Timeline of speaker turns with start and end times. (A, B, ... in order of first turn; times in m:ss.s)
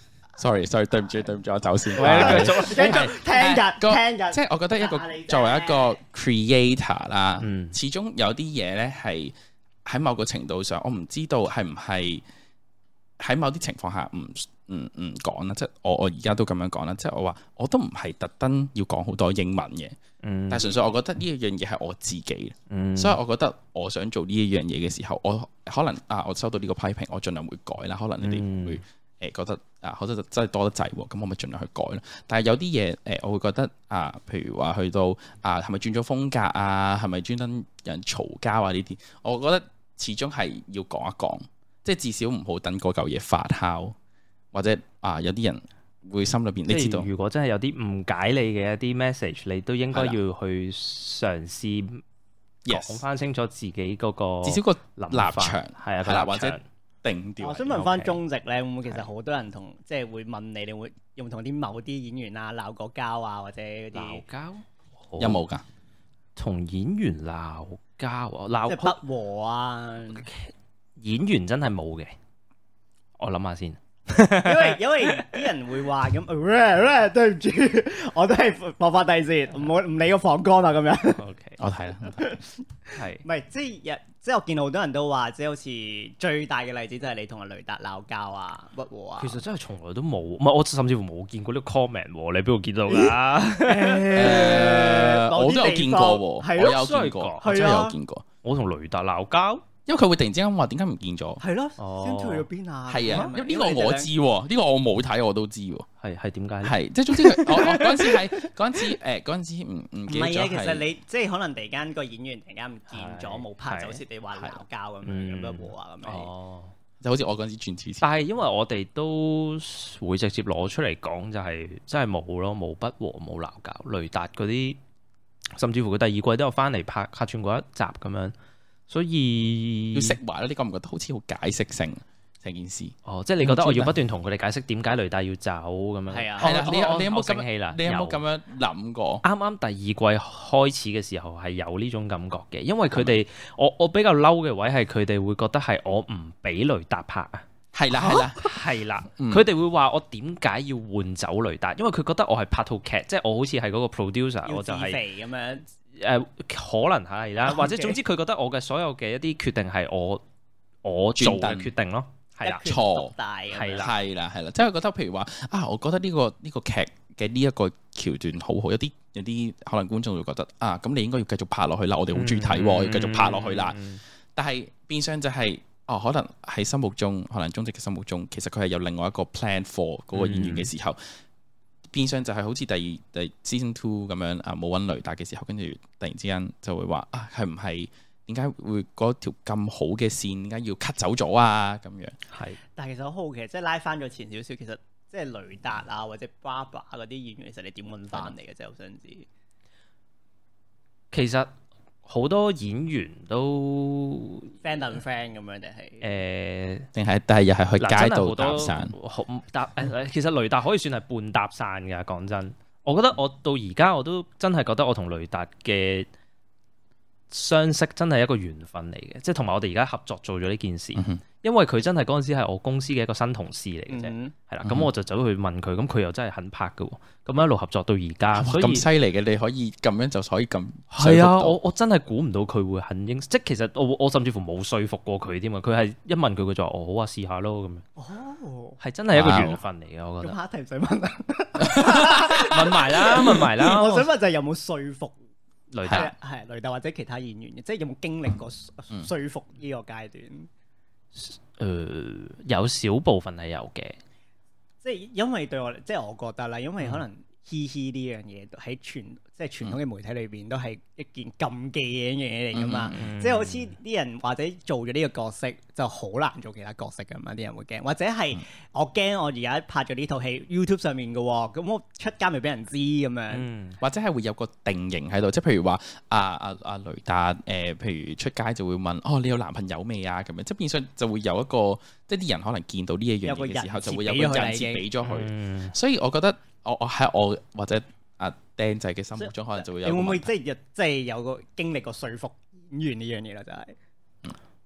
0:00.4-0:09.3 A
0:02.0-0:03.1 B
0:02.0-0:06.0 C
0:07.4-0:07.8 B
0:09.8-0:12.2 A
0:13.2-0:20.0 A
0:20.2-0:20.7 B
0:20.5-0:44.0 A
0:22.7-0:23.2 B
0:28.2-0:28.8 B
0:44.5-0:47.1 A
0:46.7-0:52.0 B
0:49.9-0:50.2 A
0:52.7-0:53.0 A
0:52.7-0:56.6 B
0:54.4-0:57.9 A
0:57.4-1:04.2 C
0:57.7-0:58.2 B
1:03.9-1:05.4 B
1:05.2-1:05.6 A
1:06.4-1:09.0 B
1:08.7-1:10.3 C
1:10.2-1:12.2 B
1:13.2-1:15.5 B
1:14.4-1:21.2 C
1:21.2-1:21.6 B
1:21.6-1:22.4 A
1:22.1-1:29.4 C
1:22.9-1:23.2 B
1:29.2-1:34.6 B
1:32.9-1:36.9 C
1:34.1-1:38.2 A
1:36.6-1:37.6 B
1:37.4-1:38.0 C
1:38.4-1:39.7 B
1:39.9-1:41.4 A
1:41.4-1:44.1 C
1:41.8-1:42.5 B
1:42.9-1:45.9 A
1:46.0-1:48.1 B
1:46.6-1:50.8 A
1:50.1-1:56.3 C
1:52.9-1:54.0 B
1:55.0-1:56.7 B
1:57.0-1:58.1 A
1:58.0-2:04.8 B
2:05.6-2:08.3 B
2:08.9-2:10.2 B
2:09.9-2:14.0 A
2:13.1-2:18.2 B
2:16.1-2:16.6 C
2:16.4-2:19.2 A
2:19.2-2:27.4 B
2:22.9-2:23.2 A
2:27.7-2:28.5 A
2:28.0-2:35.0 B
2:29.2-2:29.5 A
2:34.5-2:35.7 C
2:36.0-2:40.2 B
2:37.5-2:38.0 C
2:40.8-2:42.7 B
2:41.2-2:41.7 A
2:42.4-2:43.9 C
2:42.6-2:43.1 A
2:43.5-2:43.9 B
2:43.8-2:53.8 A
2:52.1-2:54.0 B
2:54.4-3:01.0 A
3:00.1-3:00.7 B
3:01.9-3:12.2 A
3:12.3-3:12.6 B
3:12.8-3:19.3 C
3:21.1-3:21.5 B
3:22.1-3:24.6 B
3:24.6-3:26.1 C
3:26.0-3:26.9 B
3:26.9-3:29.0 A
3:27.8-3:36.1 B
3:37.3-3:48.8 B
3:41.0-3:41.2 A
3:43.9-3:44.3 C
3:44.6-3:44.9 A
3:48.3-3:51.6 A
3:50.9-3:57.8 B
3:58.0-3:58.8 C
3:58.8-4:00.4 B
3:59.1-3:59.6 A
4:00.2-4:05.2 C
4:01.6-4:02.7 A
4:02.4-4:04.1 B
4:05.7-4:06.1 B
4:05.8-4:06.1 A
4:05.9-4:10.5 C
4:11.1-4:14.0 B
4:14.8-4:33.5 C
4:22.5-4:23.1 A
4:22.9-4:23.8 B
4:33.3-4:33.8 B
4:33.8-4:50.3 A
4:43.2-4:44.8 C
4:45.0-4:45.8 B
4:49.2-4:53.8 C